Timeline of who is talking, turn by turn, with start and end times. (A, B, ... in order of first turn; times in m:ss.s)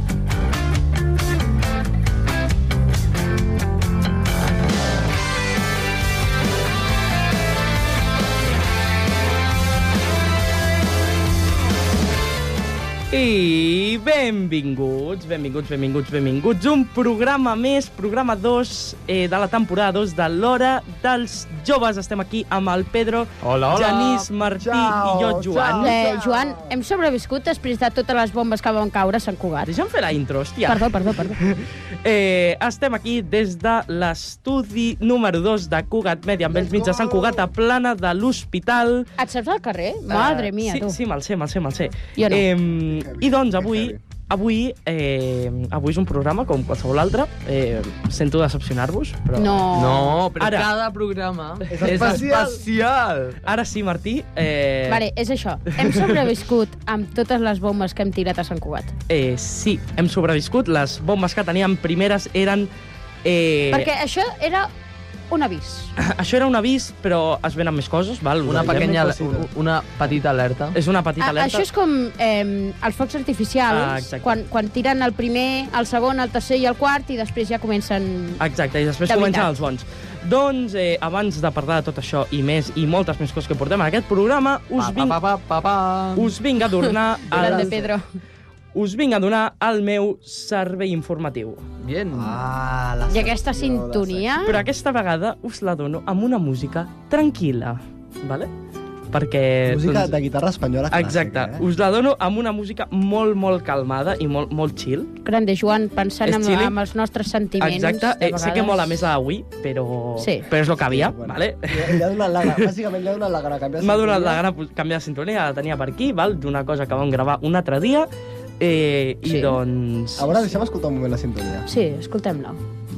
0:13.1-0:25.9 A
0:23.4-0:24.2 B
0:24.6-0:26.7 C
0:25.8-0:29.7 D
0:29.6-0:30.9 A
0:30.7-0:31.4 D
0:31.4-0:39.1 A
0:36.5-0:37.4 C
0:39.2-0:41.0 D
0:40.1-0:49.7 A
0:42.2-0:42.4 D
0:42.9-0:44.0 C
0:49.4-0:50.2 D
0:49.7-0:53.4 B
0:50.4-0:50.7 A
0:51.7-0:52.6 C
0:53.4-0:55.0 A
0:54.9-0:58.9 D
0:55.8-0:56.1 A
0:59.1-1:02.7 A
1:03.2-1:03.9 A
1:03.7-1:04.7 D
1:05.3-1:05.9 D
1:06.0-1:09.0 A
1:08.4-1:10.8 B
1:08.5-1:09.5 C
1:10.7-1:11.6 A
1:11.2-1:18.4 D
1:13.7-1:14.4 A
1:18.4-1:25.2 A
1:19.0-1:19.6 D
1:24.8-1:26.3 B
1:26.2-1:27.8 A
1:27.2-1:27.9 C
1:27.3-1:28.0 D
1:28.7-1:31.6 A
1:31.8-1:32.4 B
1:32.1-1:34.5 C
1:33.1-1:34.6 D
1:34.4-1:38.5 A
1:39.1-1:40.1 A
1:39.6-1:41.6 C
1:40.9-1:45.1 A
1:45.2-1:49.0 D
1:46.2-1:46.7 A
1:47.6-1:52.7 A
1:50.2-1:50.5 D
1:50.7-1:54.4 C
1:53.8-1:58.1 A
1:58.6-2:00.5 A
1:59.2-1:59.6 D
2:00.2-2:01.7 C
2:01.7-2:02.6 D